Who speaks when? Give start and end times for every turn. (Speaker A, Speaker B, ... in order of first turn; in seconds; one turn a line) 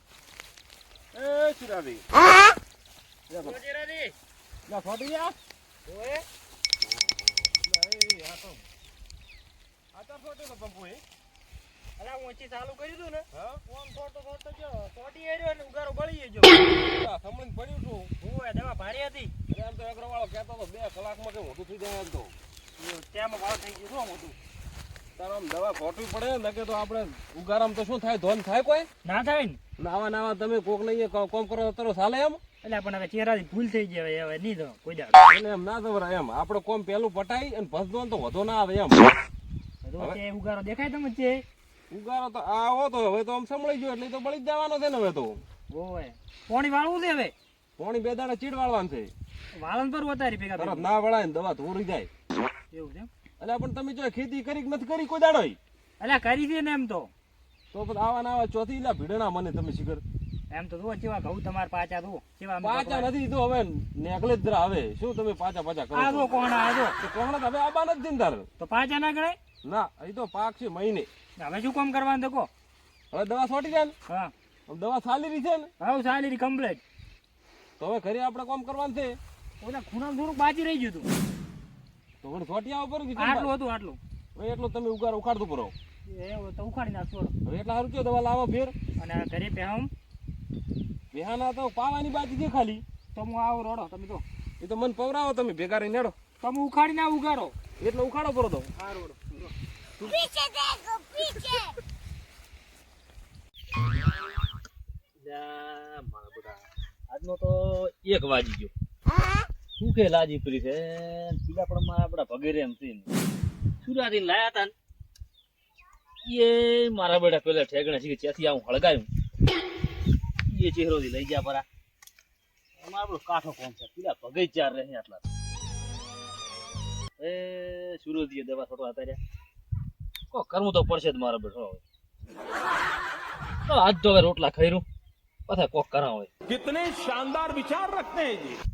Speaker A: 1.1-2.0
Speaker A: 3.3-3.6
Speaker B: 3.4-4.1
Speaker A: 4.7-5.3
Speaker B: 5.9-6.2
Speaker A: 7.5-8.6
Speaker A: 9.9-11.0
Speaker B: 12.0-16.6
Speaker A: 13.3-13.6
Speaker A: 16.9-18.1
Speaker B: 18.2-19.3
Speaker A: 19.5-22.3
Speaker B: 22.8-24.4
Speaker A: 25.1-28.9
Speaker B: 29.0-29.6
Speaker A: 29.8-32.4
Speaker B: 32.6-35.2
Speaker A: 35.3-39.1
Speaker B: 39.8-41.4
Speaker A: 41.9-45.4
Speaker B: 45.7-47.3
Speaker A: 47.8-49.1
Speaker B: 49.6-50.9
Speaker A: 50.6-52.1
Speaker B: 52.7-53.1
Speaker A: 53.4-55.6
Speaker B: 56.0-57.1
Speaker A: 57.7-60.0
Speaker B: 60.5-63.1
Speaker A: 62.6-66.3
Speaker B: 65.9-67.0
Speaker A: 67.0-68.5
Speaker B: 68.6-69.4
Speaker A: 69.6-71.1
Speaker B: 71.4-72.5
Speaker A: 73.1-73.9
Speaker A: 74.7-75.7
Speaker B: 75.8-76.8
Speaker A: 77.8-79.2
Speaker B: 79.6-81.1
Speaker A: 82.2-83.5
Speaker B: 83.2-84.0
Speaker A: 84.3-85.7
Speaker B: 86.1-87.3
Speaker A: 87.4-88.7
Speaker B: 89.0-89.9
Speaker A: 91.1-92.8
Speaker B: 93.1-94.2
Speaker A: 94.6-96.2
Speaker B: 96.4-97.6
Speaker A: 97.8-98.7
Speaker B: 98.8-99.5
Speaker C: 105.2-108.7
Speaker C: 109.8-113.1
Speaker C: 113.8-114.7
Speaker C: 116.2-119.1
Speaker C: 120.5-121.6
Speaker C: 122.8-125.2
Speaker C: 127.2-129.2
Speaker C: 130.3-131.8
Speaker C: 133.7-134.8
Speaker C: 135.5-136.3
Speaker A: 136.5-138.6